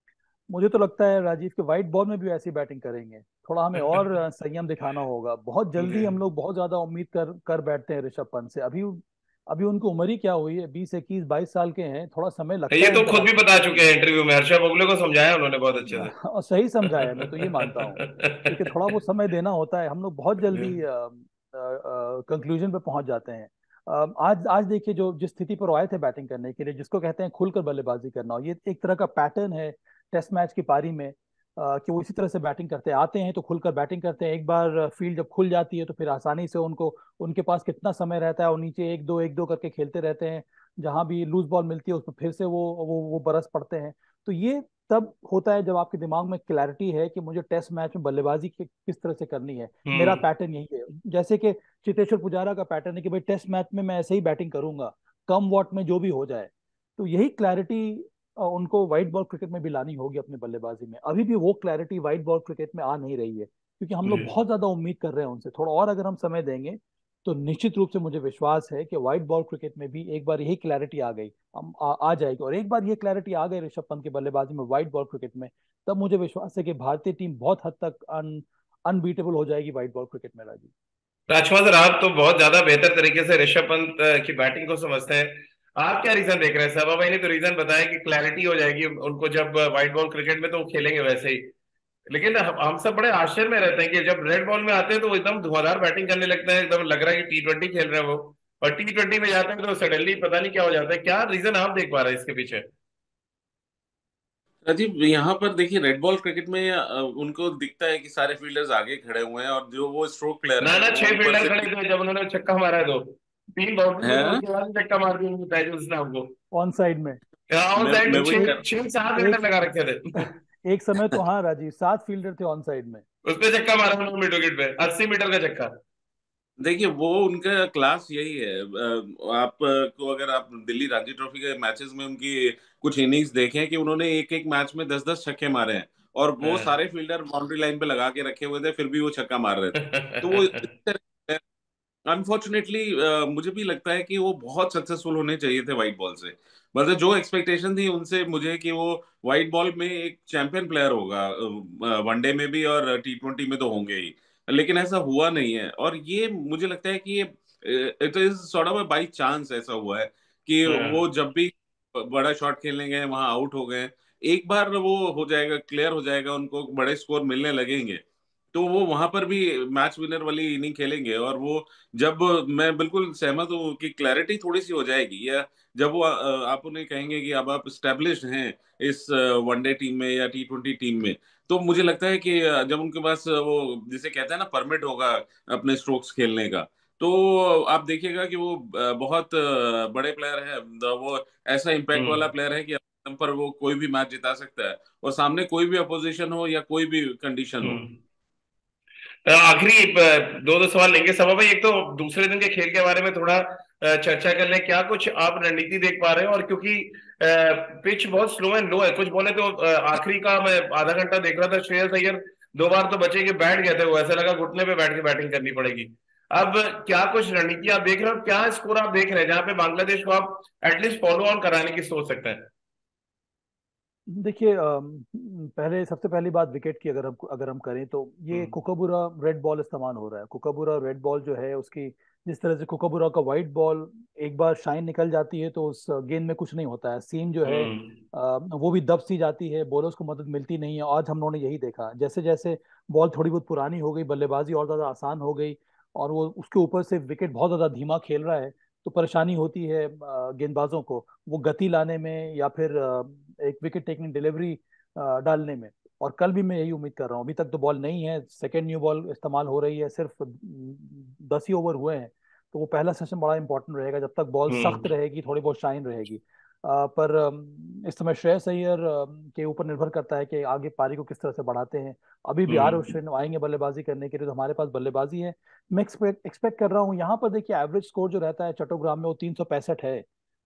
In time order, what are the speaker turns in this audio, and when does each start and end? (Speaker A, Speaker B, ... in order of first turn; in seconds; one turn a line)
Speaker A: 0.5-13.8
Speaker B: 5.8-6.1
Speaker B: 12.7-16.1
Speaker A: 15.9-80.7
Speaker B: 16.9-18.6
Speaker B: 20.5-20.8
Speaker B: 49.9-50.2
Speaker B: 64.0-64.3
Speaker B: 81.3-91.5
Speaker B: 92.1-102.6
Speaker C: 104.6-111.7
Speaker B: 110.6-116.3
Speaker C: 114.0-114.4
Speaker A: 116.5-117.2
Speaker B: 117.5-120.3
Speaker C: 117.8-118.6
Speaker A: 119.2-119.4
Speaker A: 120.1-123.0
Speaker B: 123.2-125.7
Speaker C: 126.6-141.4
Speaker B: 136.4-136.7
Speaker B: 139.8-140.6
Speaker C: 142.1-197.8
Speaker B: 160.7-161.0
Speaker B: 191.9-192.3
Speaker B: 197.6-197.9
Speaker B: 199.2-222.4
Speaker A: 224.1-280.0
Speaker B: 228.3-228.6
Speaker B: 237.4-237.9
Speaker B: 264.5-264.9
Speaker B: 272.5-272.9